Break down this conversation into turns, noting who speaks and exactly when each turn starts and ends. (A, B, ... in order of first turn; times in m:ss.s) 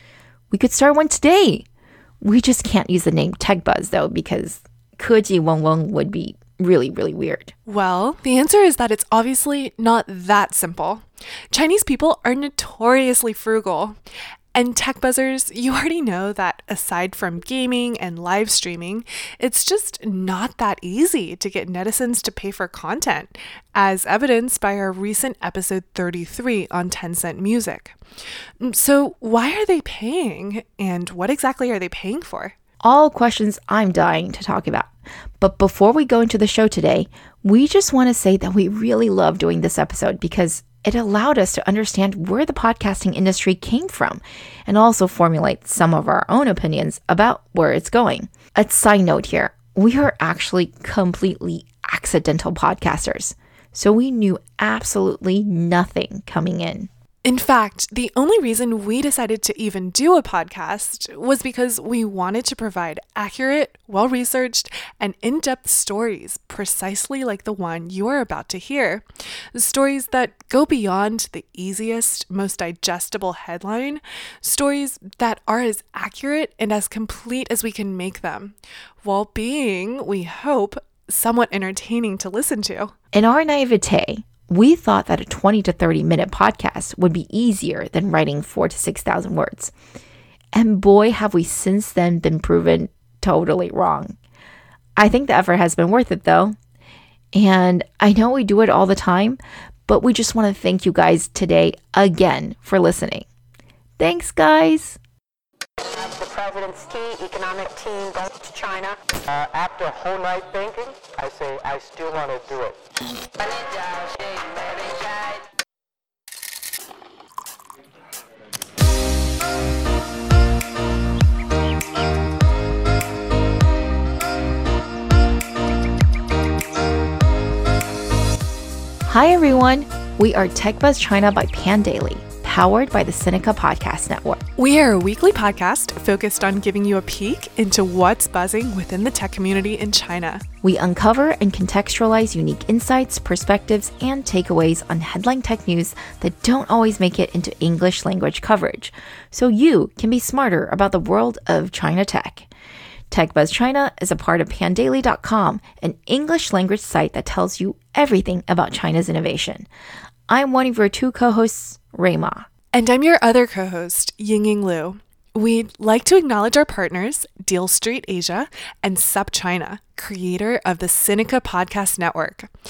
0:00.5-0:01.6 A
0:02.2-0:07.5 A
0:07.6-0:14.0 B
0:14.5-0:28.0 B
0:28.6-0:32.5 B
0:32.8-0:56.9 A
0:57.2-1:22.9 B
1:23.1-1:29.7 A
1:30.5-1:34.2 A
1:35.0-1:36.6 A
1:37.3-1:43.2 A
1:44.0-1:45.0 A
1:45.8-1:52.8 C
1:53.4-1:55.4 C
2:09.0-2:14.4 A
2:14.6-2:20.4 B
2:20.6-2:32.5 A
2:33.1-2:39.7 A
2:40.3-2:42.5 A
2:42.7-2:52.5 B